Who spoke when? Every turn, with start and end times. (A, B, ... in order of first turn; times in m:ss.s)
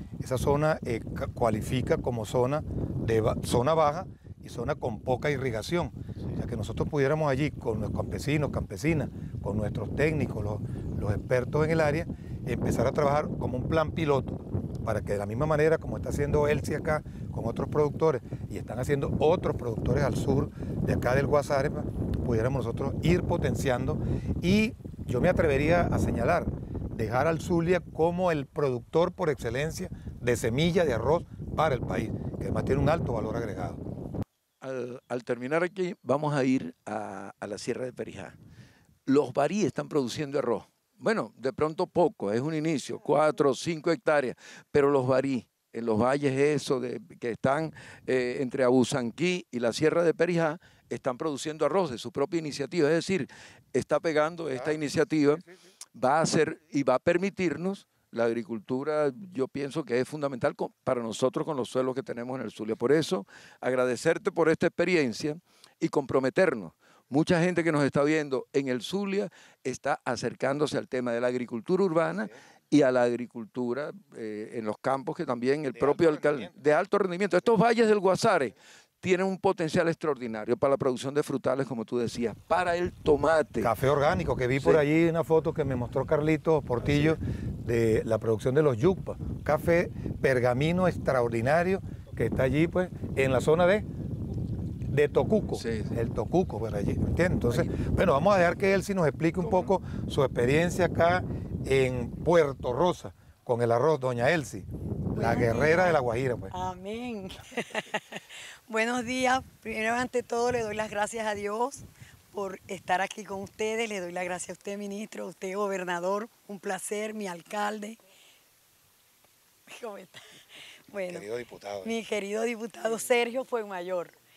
0:00.2-0:33.8 A
0:34.6-0:38.3 B
0:39.0-0:55.4 B
0:55.9-1:23.7 B
1:16.0-1:16.5 A
1:23.6-1:33.8 A
1:24.6-1:24.8 B
1:34.9-1:46.5 A
1:35.5-1:36.0 B
1:39.4-1:39.7 B
1:45.2-1:46.0 C
1:46.5-1:58.0 C
1:59.7-2:00.2 C
2:00.9-2:01.2 C
2:01.0-2:01.9 A
2:01.8-2:04.1 C